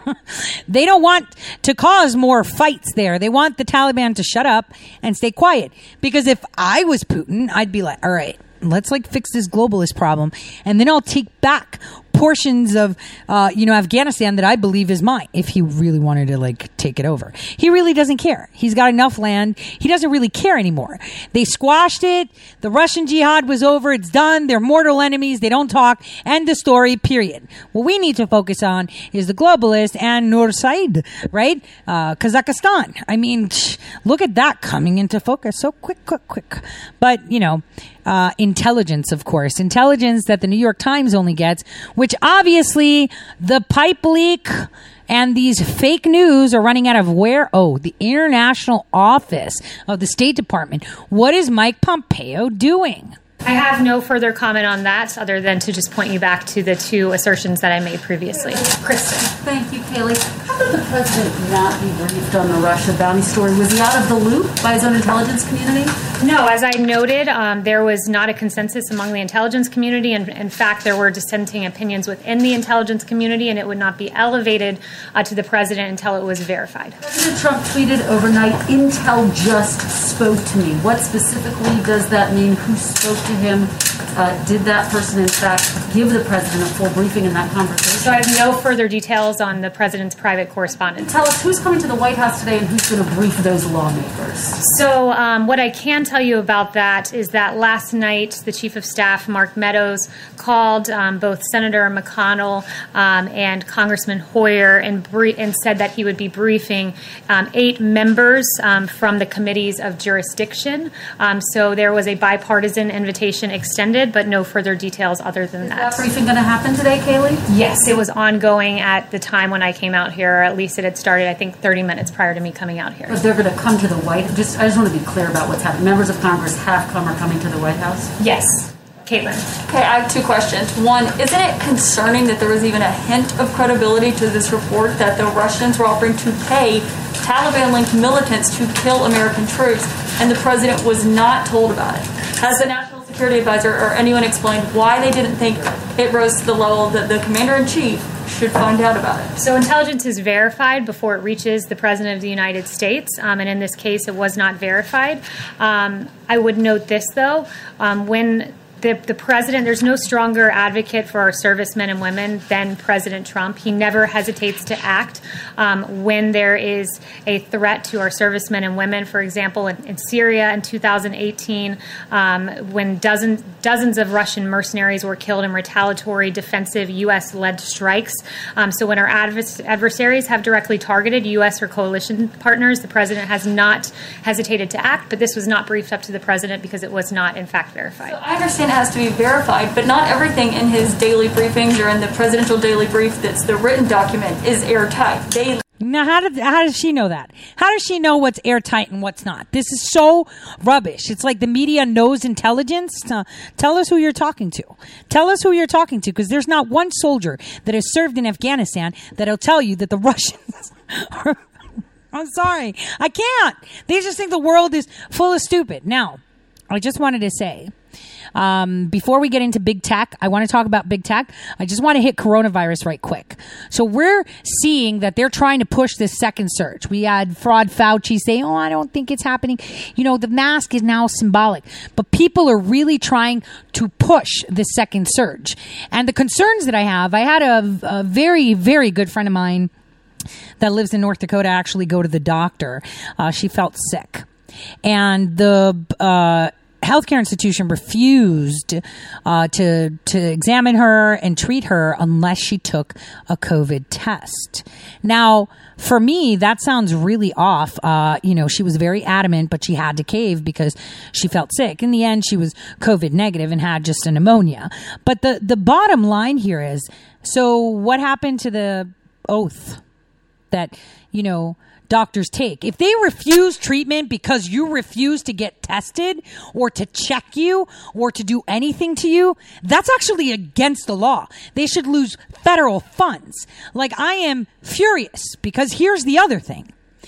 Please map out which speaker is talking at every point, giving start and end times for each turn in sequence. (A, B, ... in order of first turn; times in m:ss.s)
0:00.3-0:53.1 A
0:53.4-0:58.6 B
0:58.3-1:06.0 C
1:06.2-1:16.9 B
1:17.0-1:28.3 C
1:28.0-1:31.1 B
1:30.9-1:34.6 C
1:34.6-1:56.0 B
1:55.6-1:57.8 C
1:57.7-2:03.2 B
2:03.1-2:08.1 C
2:08.2-2:09.4 B
2:09.7-2:29.3 D
2:29.4-3:08.2 B
3:08.0-3:15.6 D
3:15.8-3:31.4 A
3:32.1-3:37.7 A
3:38.3-3:59.7 A
4:00.6-4:04.2 A
4:04.8-4:29.8 A
4:30.5-4:46.7 A